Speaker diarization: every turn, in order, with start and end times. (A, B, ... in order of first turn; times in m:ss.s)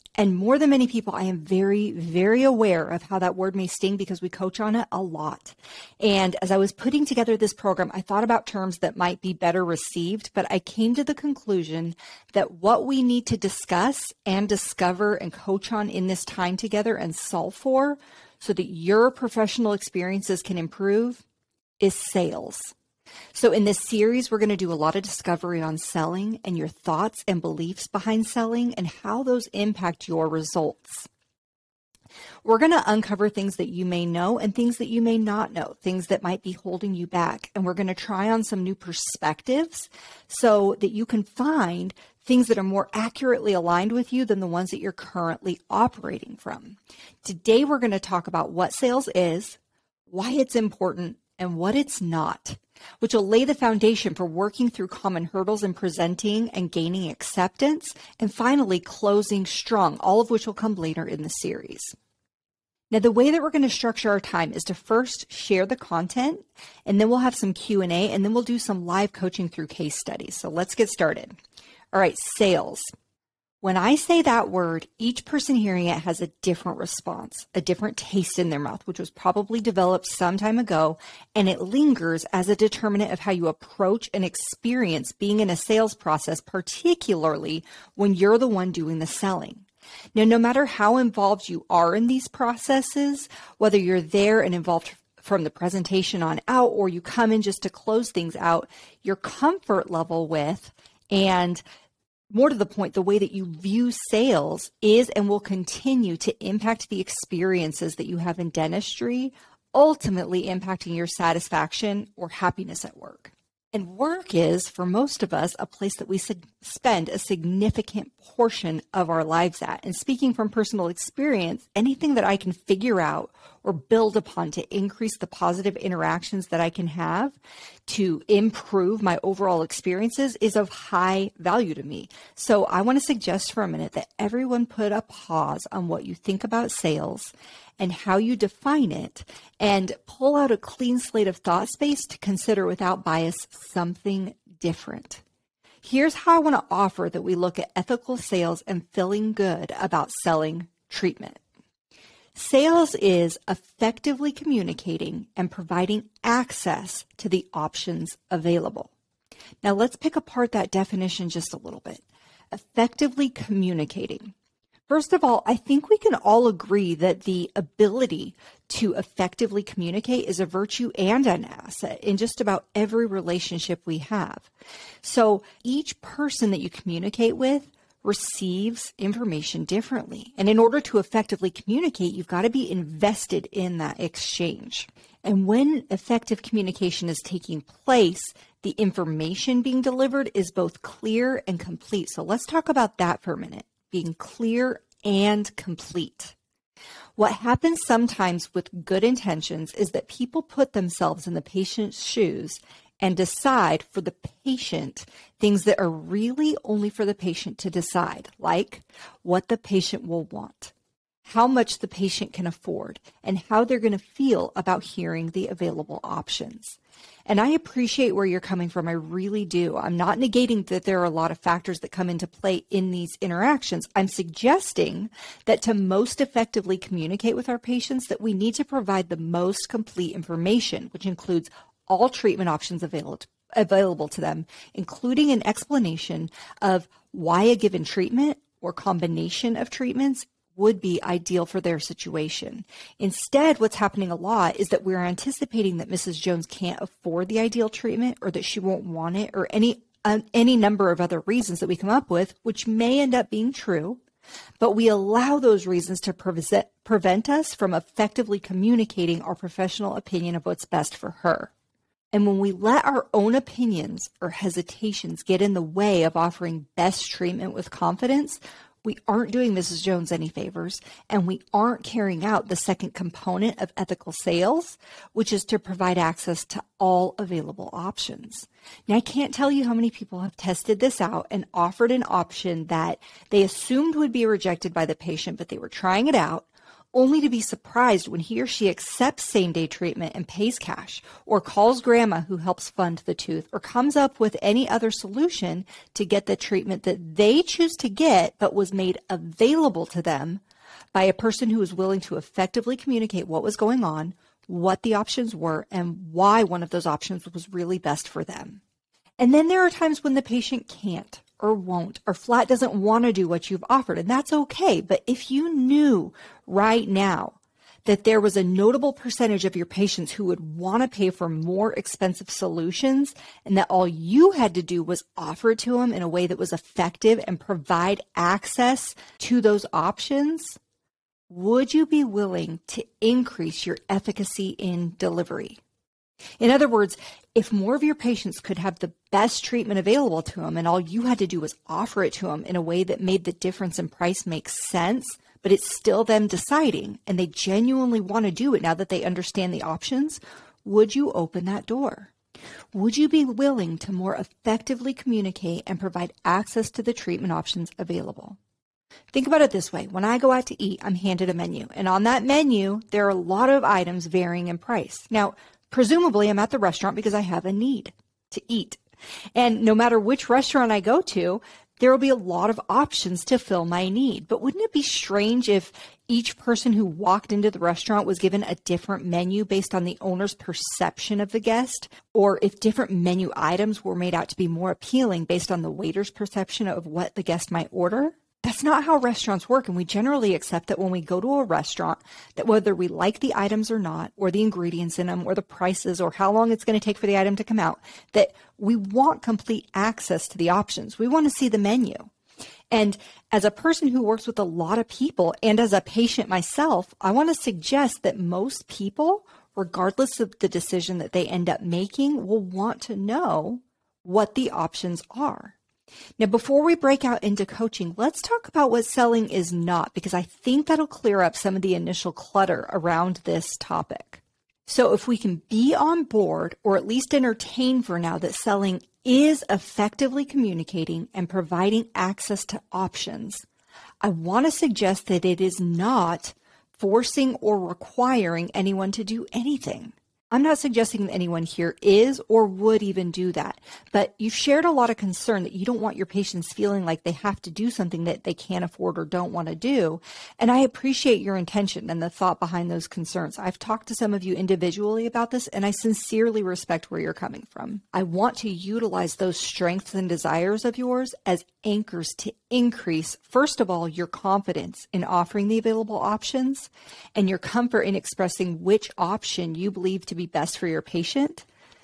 0:00.2-0:21.2 A
0:21.8-0:22.8 A
0:23.3-0:31.1 A
0:32.4-0:49.6 A
0:50.1-1:02.0 A
1:02.9-1:11.4 A
1:11.9-1:12.9 A
1:13.6-1:41.6 A
1:42.3-2:25.2 A
2:25.8-2:31.4 A
2:32.4-2:38.9 A
2:39.6-2:44.3 A
2:44.9-2:54.5 A
2:55.0-3:16.4 A
3:17.2-3:30.7 A
3:31.2-4:14.0 A
4:14.6-4:21.5 A
4:22.1-5:00.4 A
5:00.9-5:08.6 A
5:09.2-5:30.6 A
5:31.3-5:35.6 A
5:36.4-5:52.1 A
5:52.7-5:58.4 A
5:59.1-6:08.8 A
6:09.4-6:42.1 A
6:42.7-6:55.6 A
6:56.2-7:13.4 A
7:14.0-7:51.5 A